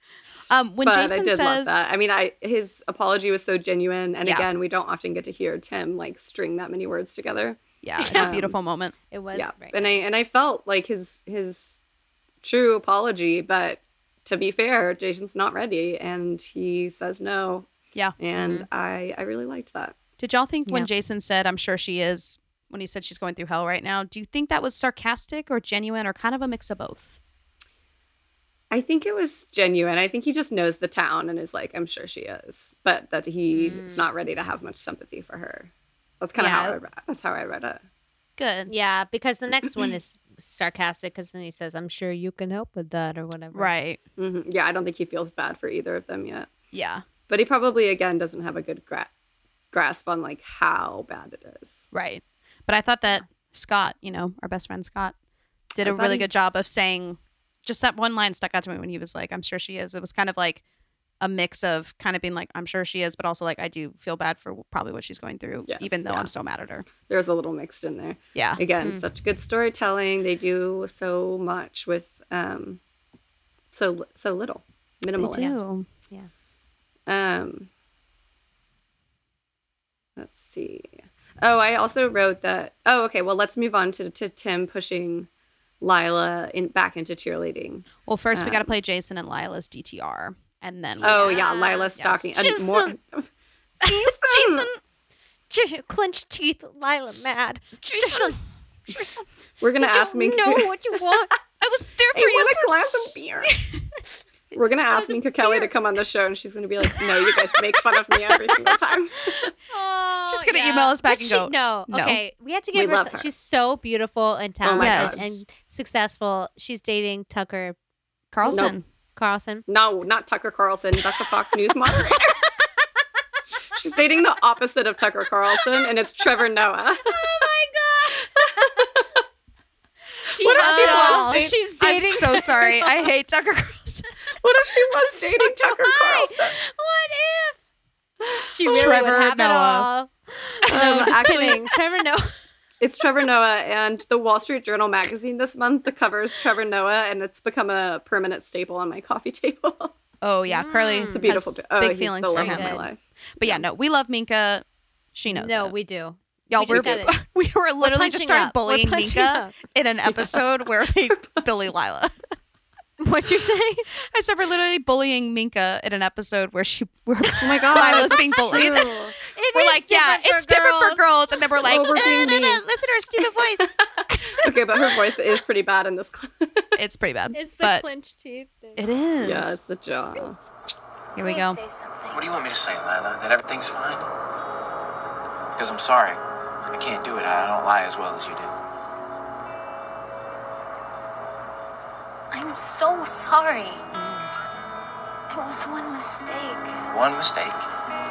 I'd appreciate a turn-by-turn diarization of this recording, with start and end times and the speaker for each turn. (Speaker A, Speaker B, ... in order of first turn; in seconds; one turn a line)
Speaker A: 0.5-1.9
Speaker B: 0.8-8.6
Speaker A: 7.8-8.9
Speaker C: 8.0-8.3
Speaker C: 9.1-10.1
Speaker B: 9.3-11.8
Speaker B: 12.4-17.7
Speaker B: 18.2-19.9
Speaker C: 18.4-18.7
Speaker A: 20.2-27.2
Speaker B: 28.7-35.7
Speaker C: 33.5-34.1
Speaker B: 36.2-37.8
Speaker C: 36.4-36.8
Speaker A: 38.4-38.7
Speaker C: 38.7-43.7
Speaker A: 43.5-44.0
Speaker B: 44.2-46.5
Speaker A: 46.7-47.0
Speaker B: 47.3-49.1
Speaker B: 49.7-51.9
Speaker A: 51.9-55.1
Speaker A: 55.7-60.6
Speaker B: 55.8-56.3
Speaker A: 61.2-66.9
Speaker B: 65.7-66.3
Speaker B: 67.0-72.8
Speaker A: 68.3-68.6
Speaker B: 73.7-75.6
Speaker A: 75.2-75.8
Speaker B: 77.1-77.7
Speaker B: 80.2-85.3
Speaker B: 85.8-88.7
Speaker A: 88.0-91.4
Speaker B: 91.0-93.3
Speaker C: 91.0-92.9
Speaker A: 92.0-92.3
Speaker A: 93.8-94.8
Speaker B: 93.9-94.7
Speaker C: 95.5-98.4
Speaker A: 97.8-98.3
Speaker B: 99.6-100.7
Speaker C: 99.8-101.3
Speaker A: 101.6-103.8
Speaker B: 102.1-103.5
Speaker B: 104.5-109.5
Speaker C: 104.9-105.7
Speaker C: 109.7-117.8
Speaker A: 110.3-112.2
Speaker B: 112.7-113.3
Speaker B: 114.6-115.3
Speaker A: 114.8-115.4
Speaker A: 118.3-118.8
Speaker C: 118.4-119.7
Speaker B: 118.5-118.7
Speaker B: 119.7-122.4
Speaker B: 123.7-127.2
Speaker C: 127.0-128.8
Speaker B: 128.3-129.1
Speaker C: 130.3-132.9
Speaker B: 130.3-131.6
Speaker A: 130.5-134.1
Speaker B: 134.4-136.6
Speaker C: 135.2-137.6
Speaker B: 138.2-139.2
Speaker C: 138.5-142.3
Speaker A: 138.7-139.9
Speaker A: 140.7-141.5
Speaker B: 140.7-141.6
Speaker B: 142.8-149.9
Speaker A: 150.2-155.7
Speaker C: 150.5-151.3
Speaker B: 151.0-153.6
Speaker C: 152.3-152.9
Speaker C: 155.3-157.2
Speaker A: 156.5-162.1
Speaker B: 156.6-157.0
Speaker C: 157.8-159.5
Speaker B: 160.1-160.4
Speaker B: 161.1-161.7
Speaker C: 163.0-163.9
Speaker A: 164.1-168.9
Speaker B: 167.4-169.1
Speaker C: 167.6-172.1
Speaker A: 169.5-173.7
Speaker B: 171.6-172.6
Speaker B: 174.4-176.7
Speaker A: 176.8-177.8
Speaker C: 177.3-178.8
Speaker A: 178.8-179.6
Speaker B: 179.2-180.4
Speaker A: 181.1-181.6
Speaker D: 181.2-182.4
Speaker E: 182.1-184.1
Speaker E: 185.6-188.5
Speaker D: 192.3-193.8
Speaker C: 193.9-194.3
Speaker D: 195.3-196.8
Speaker E: 196.9-197.6